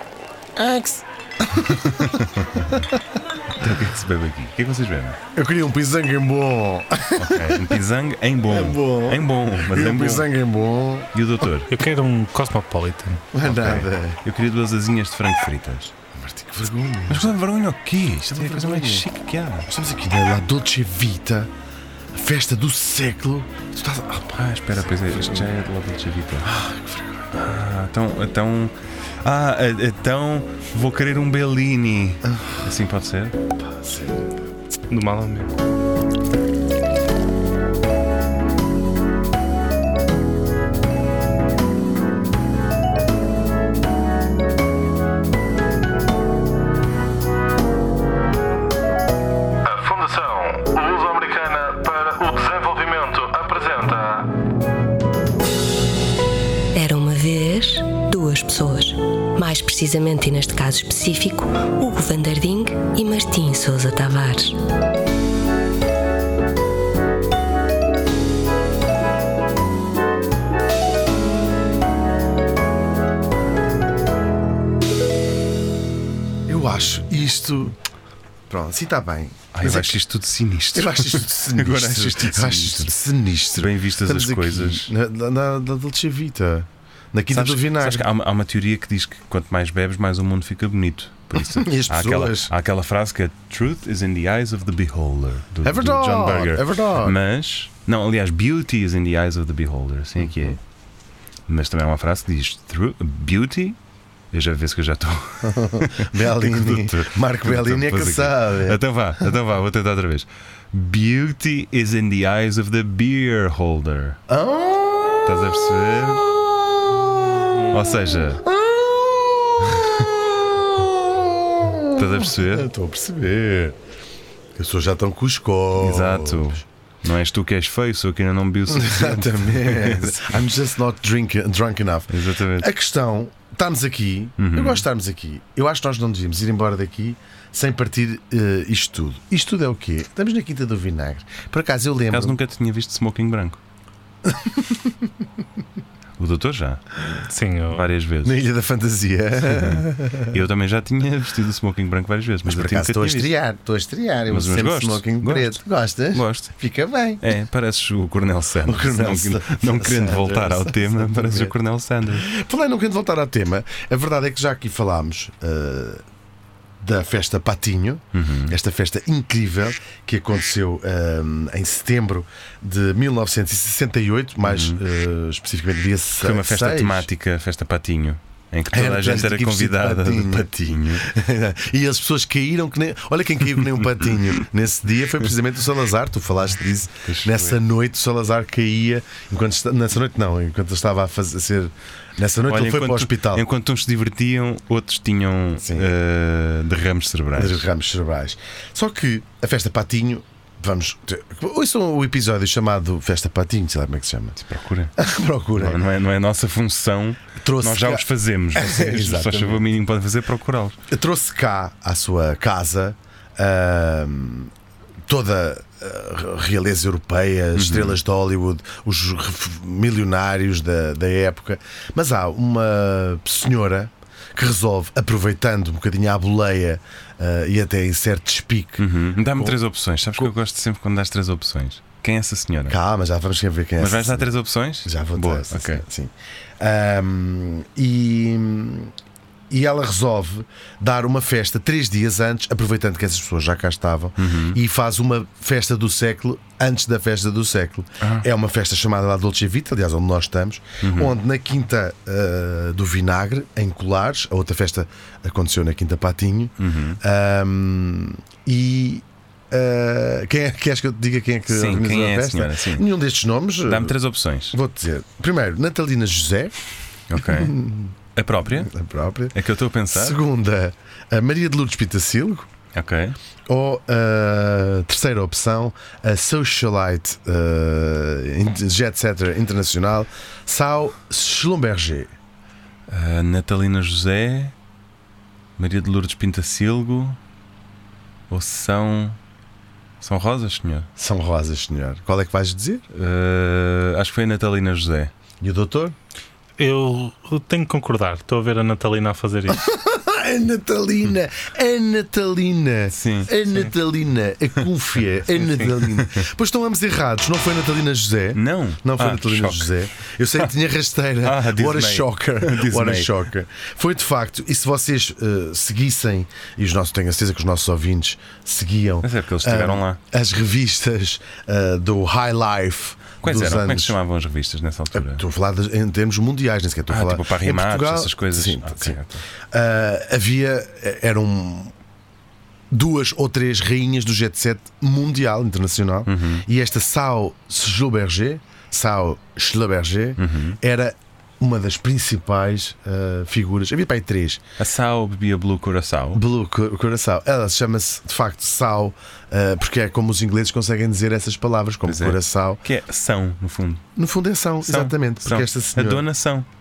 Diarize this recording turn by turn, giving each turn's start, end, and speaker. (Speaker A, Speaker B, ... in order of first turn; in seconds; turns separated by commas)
Speaker A: 0.6-3.0, Speaker B: 1.6-2.8, Speaker B: 3.5-5.2, Speaker A: 5.3-7.8, Speaker B: 7.2-10.3, Speaker A: 8.5-11.1, Speaker B: 11.1-11.7, Speaker C: 11.7-13.2, Speaker A: 13.3-14.2, Speaker B: 13.4-15.9, Speaker A: 16.1-17.3, Speaker B: 17.1-19.7, Speaker A: 18.2-19.1, Speaker A: 19.7-21.5, Speaker A: 22.1-25.5, Speaker B: 24.2-26.5, Speaker A: 26.4-27.3, Speaker B: 27.3-33.4, Speaker A: 32.2-32.6, Speaker A: 33.6-34.5, Speaker C: 34.9-35.5, Speaker D: 49.7-54.3, Speaker E: 56.7-64.6, Speaker A: 76.5-77.8, Speaker A: 78.5-80.0, Speaker B: 79.5-82.9, Speaker A: 80.7-88.1, Speaker B: 83.5-84.9, Speaker B: 87.3-100.6, Speaker A: 91.3-92.5, Speaker A: 95.6-97.2, Speaker B: 101.5-103.8, Speaker B: 104.3-114.2, Speaker A: 105.4-108.8, Speaker A: 114.3-116.0, Speaker B: 115.2-116.2, Speaker A: 116.8-123.8, Speaker B: 117.7-118.4, Speaker B: 121.9-122.7, Speaker A: 124.5-126.6, Speaker B: 125.8-130.4, Speaker A: 128.7-142.4, Speaker B: 132.1-132.7, Speaker B: 134.4-134.8, Speaker B: 142.1-143.6, Speaker A: 144.2-144.9, Speaker B: 146.2-146.8, Speaker C: 147.3-147.8, Speaker B: 147.7-148.4, Speaker A: 148.2-150.4, Speaker B: 149.4-153.3, Speaker A: 152.4-157.2, Speaker B: 154.3-155.6, Speaker B: 156.1-156.5, Speaker B: 157.2-162.3, Speaker A: 158.6-161.5, Speaker A: 162.1-166.0, Speaker A: 166.8-177.1, Speaker B: 168.1-168.6, Speaker B: 174.4-174.8, Speaker B: 176.2-181.1, Speaker A: 178.7-193.4, Speaker B: 187.0-187.6, Speaker B: 192.5-197.6, Speaker A: 195.6-195.9, Speaker A: 197.3-204.3, Speaker B: 204.3-204.9, Speaker A: 205.0-205.8, Speaker B: 205.6-210.8, Speaker A: 207.4-209.6, Speaker A: 210.9-214.5, Speaker A: 215.1-229.6, Speaker B: 217.5-218.0, Speaker B: 228.8-232.8, Speaker A: 232.7-234.3, Speaker B: 233.8-235.8, Speaker A: 234.8-238.9, Speaker A: 239.5-263.9, Speaker B: 244.2-244.6, Speaker B: 248.0-248.2, Speaker B: 250.8-251.2, Speaker B: 256.6-257.0, Speaker B: 261.5-262.9, Speaker B: 263.6-264.6, Speaker A: 264.5-266.6, Speaker B: 267.1-267.6, Speaker A: 267.1-269.4, Speaker B: 268.1-268.7, Speaker B: 269.3-270.2, Speaker A: 269.9-272.5, Speaker B: 272.7-273.2, Speaker A: 273.5-282.1, Speaker B: 282.9-284.5, Speaker B: 285.6-287.2, Speaker B: 288.3-289.2, Speaker B: 290.0-290.9, Speaker A: 291.0-292.8, Speaker B: 292.9-295.1, Speaker A: 295.4-295.9, Speaker C: 296.6-299.6, Speaker A: 299.5-323.9, Speaker B: 302.9-303.3, Speaker B: 305.8-306.2, Speaker B: 308.3-309.7, Speaker B: 311.2-313.1, Speaker B: 319.0-320.0, Speaker B: 323.2-325.2, Speaker A: 324.9-329.0, Speaker B: 326.9-329.2, Speaker A: 329.5-331.7, Speaker A: 332.7-344.4, Speaker B: 336.1-336.4, Speaker B: 340.2-340.6, Speaker B: 344.6-346.2, Speaker A: 346.1-352.6, Speaker B: 351.8-353.8, Speaker A: 353.9-356.1, Speaker B: 354.6-356.5